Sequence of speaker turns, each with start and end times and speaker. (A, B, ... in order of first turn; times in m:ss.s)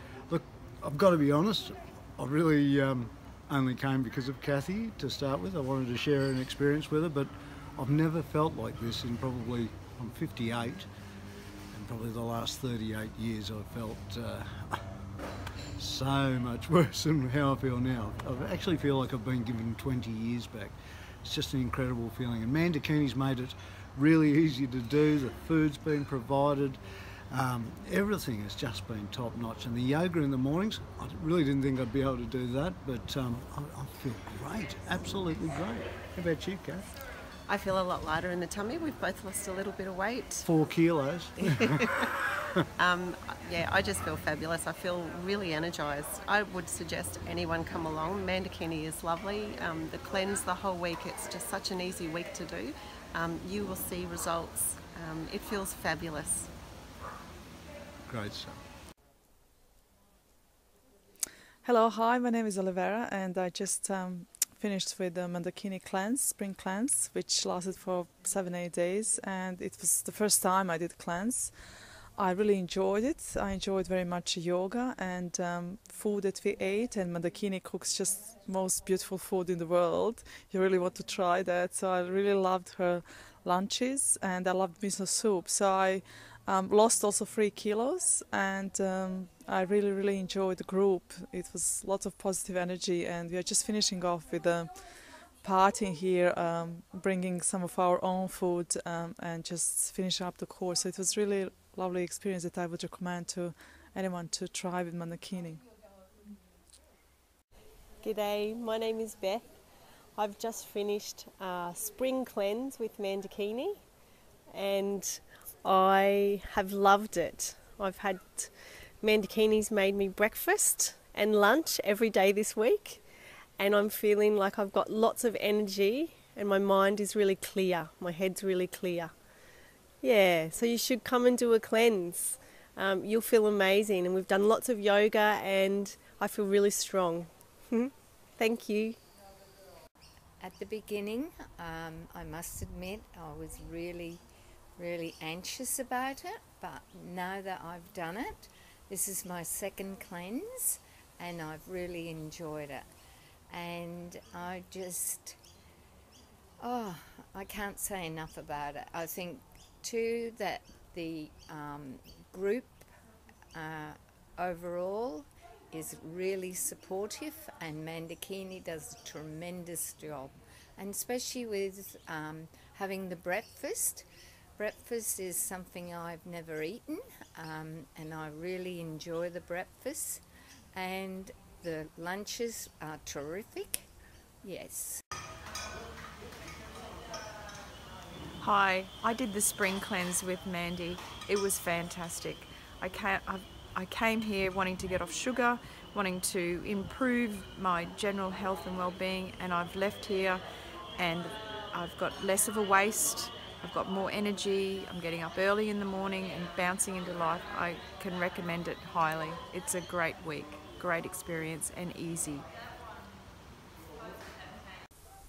0:00.3-0:10.9 A
0:11.7-0:14.9 A
0:15.8-0:26.8 A
0:27.3-0:36.9 A
0:37.5-0:40.5 B
0:40.4-0:42.6 A
0:41.4-0:42.0 B
0:42.8-0:56.5 B
0:58.1-0:58.6 A
1:01.6-1:11.5 C
1:12.2-1:34.7 C
1:35.4-1:45.6 C
1:48.0-1:49.5 D
1:50.2-1:53.8 D
1:54.5-2:03.0 D
2:03.6-2:09.1 D
2:10.0-2:19.0 D
2:20.4-2:24.2 E
2:24.8-2:32.8 E
2:33.5-2:35.4 E
2:36.6-2:42.9 E
2:43.6-2:54.1 E
2:54.6-3:00.2 E
3:00.7-3:03.9 E
3:04.4-3:05.0 E
3:08.4-3:20.4 F
3:21.0-3:32.5 F